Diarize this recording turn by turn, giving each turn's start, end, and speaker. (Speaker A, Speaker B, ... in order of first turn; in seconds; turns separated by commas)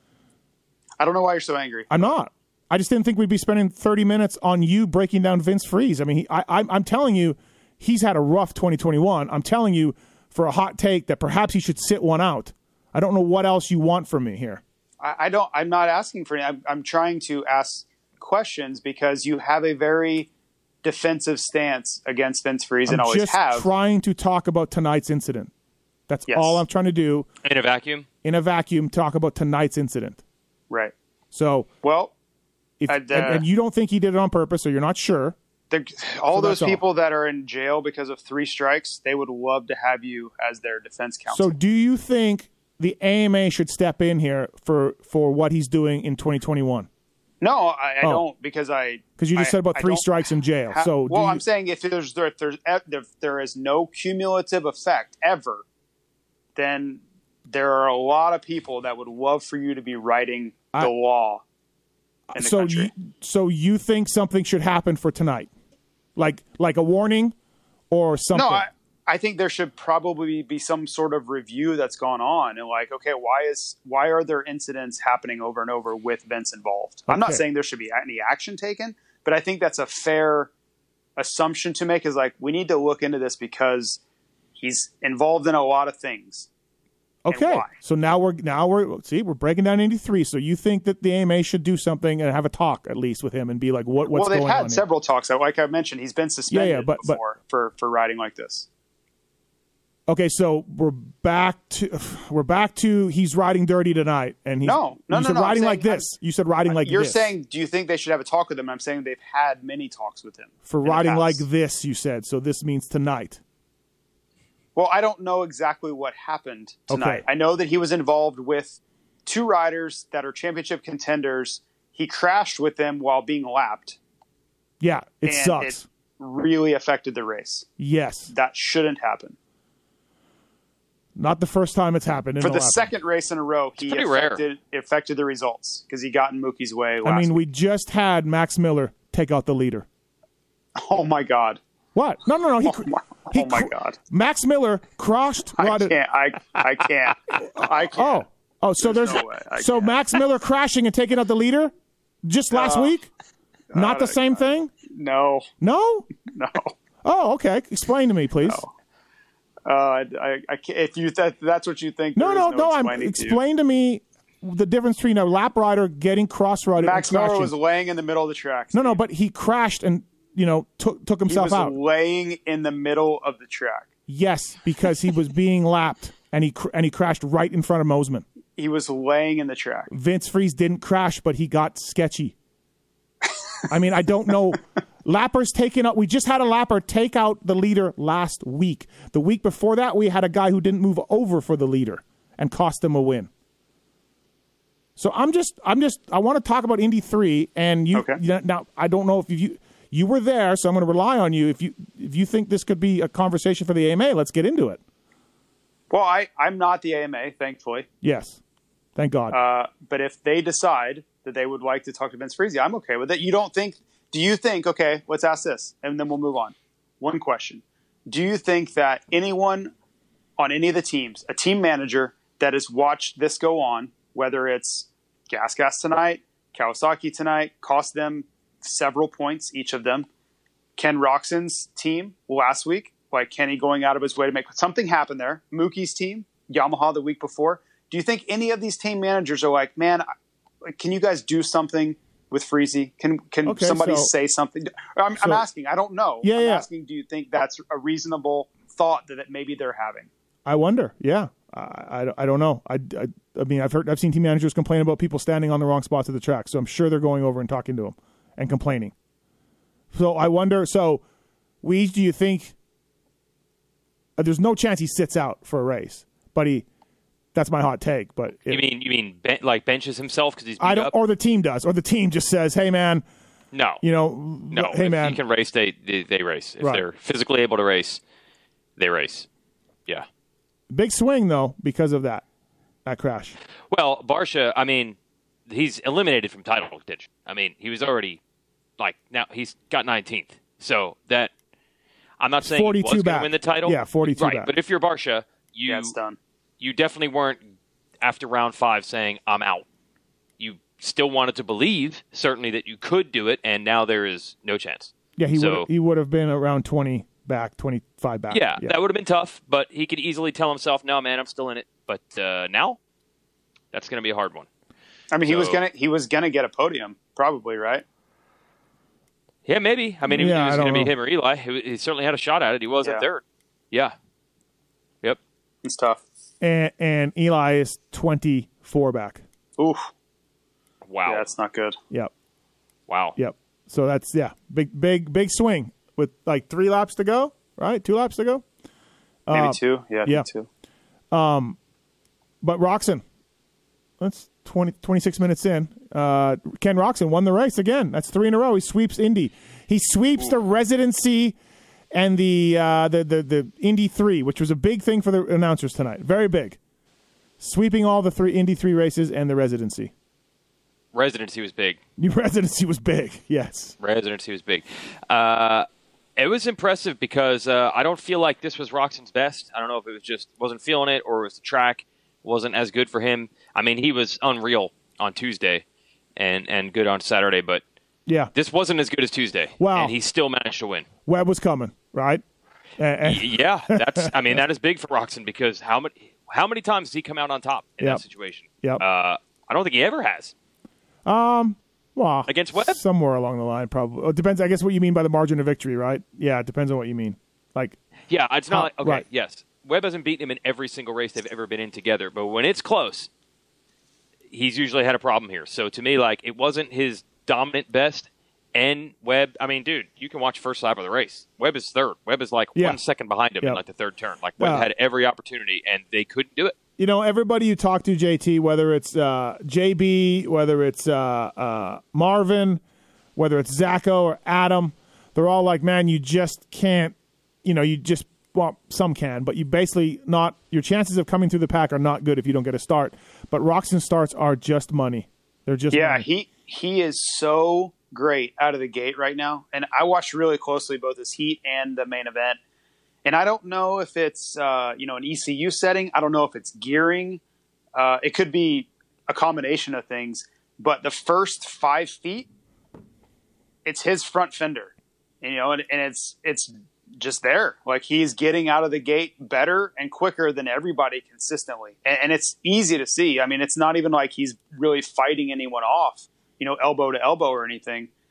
Speaker A: 1.0-1.9, Speaker B: 1.9-14.6, Speaker A: 15.0-20.3, Speaker A: 20.8-23.7, Speaker B: 22.9-25.5, Speaker B: 26.1-27.3, Speaker A: 26.3-26.6, Speaker C: 27.4-28.1, Speaker B: 28.2-30.2, Speaker B: 31.3-31.7, Speaker A: 31.8-32.1, Speaker B: 32.8-35.3, Speaker A: 32.9-33.4, Speaker A: 35.7-41.5, Speaker B: 36.3-36.8, Speaker B: 41.3-46.9, Speaker A: 47.4-50.0, Speaker B: 49.2-51.4, Speaker A: 50.7-55.6, Speaker A: 56.5-61.4, Speaker B: 62.3-65.5, Speaker A: 62.3-62.9, Speaker B: 66.2-67.3, Speaker B: 67.9-68.6, Speaker A: 68.3-80.5, Speaker B: 77.1-77.4, Speaker A: 81.2-84.0, Speaker A: 84.6-86.5, Speaker B: 87.2-94.8, Speaker A: 87.3-87.7, Speaker A: 94.1-98.7, Speaker B: 96.5-97.2, Speaker B: 100.1-107.3, Speaker A: 104.6-106.1, Speaker A: 106.7-111.4, Speaker B: 110.6-113.4, Speaker A: 114.7-124.0, Speaker B: 116.9-117.2, Speaker B: 124.8-125.8, Speaker A: 125.2-127.7, Speaker B: 127.8-128.3, Speaker A: 128.3-129.3, Speaker B: 131.2-132.9, Speaker A: 132.4-137.3, Speaker C: 133.8-134.4, Speaker B: 137.0-139.8, Speaker A: 140.8-141.6, Speaker B: 141.9-145.9, Speaker A: 142.7-144.0, Speaker A: 145.6-148.2, Speaker B: 147.6-151.7, Speaker A: 148.8-150.0, Speaker B: 152.2-153.1, Speaker A: 152.5-152.9, Speaker A: 153.7-155.5, Speaker B: 153.7-154.7, Speaker B: 155.6-156.1, Speaker A: 156.3-156.7, Speaker B: 157.0-158.6, Speaker A: 158.4-158.7, Speaker A: 159.7-163.4, Speaker B: 162.2-167.5, Speaker A: 166.8-169.0, Speaker B: 168.7-171.7, Speaker A: 171.3-173.9, Speaker B: 174.1-178.2, Speaker A: 178.6-179.9, Speaker B: 179.9-182.3, Speaker B: 183.7-193.3, Speaker B: 195.0-204.8, Speaker A: 205.9-207.8, Speaker B: 208.0-208.4, Speaker B: 208.9-209.4, Speaker A: 209.3-219.7, Speaker A: 220.4-230.1, Speaker A: 230.8-240.1, Speaker A: 240.6-250.1, Speaker B: 243.4-244.1, Speaker B: 245.2-245.4, Speaker B: 246.2-246.7, Speaker B: 250.4-258.9, Speaker B: 259.9-261.0, Speaker B: 261.6-262.5, Speaker B: 264.2-266.6, Speaker B: 267.3-268.6, Speaker C: 268.5-270.9, Speaker B: 270.6-273.0, Speaker C: 273.5-273.8, Speaker B: 273.8-275.2, Speaker C: 274.5-278.0, Speaker C: 278.8-279.3, Speaker B: 280.7-282.2, Speaker B: 282.9-283.4, Speaker C: 283.7-284.9, Speaker C: 285.5-288.2, Speaker C: 288.8-291.3, Speaker C: 292.2-295.9, Speaker B: 292.4-294.5, Speaker A: 295.7-296.2, Speaker C: 296.6-297.4, Speaker C: 298.0-299.6, Speaker C: 300.4-305.7, Speaker B: 305.2-308.7, Speaker C: 308.3-312.8, Speaker C: 313.7-314.5, Speaker A: 315.1-317.8, Speaker C: 315.2-315.6, Speaker C: 319.4-323.9, Speaker B: 320.1-320.9, Speaker A: 325.6-326.0, Speaker B: 326.4-329.2, Speaker A: 329.6-329.9, Speaker C: 330.8-331.2, Speaker A: 331.1-331.8, Speaker C: 332.9-333.1, Speaker B: 333.1-338.4, Speaker B: 339.3-340.3, Speaker A: 339.3-340.5, Speaker B: 341.1-341.6, Speaker B: 342.4-343.0, Speaker B: 344.0-351.4, Speaker B: 351.9-356.6, Speaker B: 357.4-359.9, Speaker C: 360.9-361.8, Speaker B: 362.0-363.7, Speaker C: 363.8-375.6, Speaker C: 376.2-377.6, Speaker C: 378.3-380.9, Speaker B: 379.6-379.9, Speaker B: 381.1-382.2, Speaker B: 382.8-384.4, Speaker C: 383.0-390.3, Speaker B: 391.1-397.8, Speaker C: 392.3-392.8, Speaker C: 398.1-403.1, Speaker B: 398.5-399.0, Speaker C: 404.3-416.6, Speaker B: 414.4-414.7, Speaker B: 416.8-422.6, Speaker B: 423.1-436.1, Speaker A: 435.7-442.4, Speaker A: 443.0-447.2, Speaker A: 447.7-452.3, Speaker A: 453.6-467.9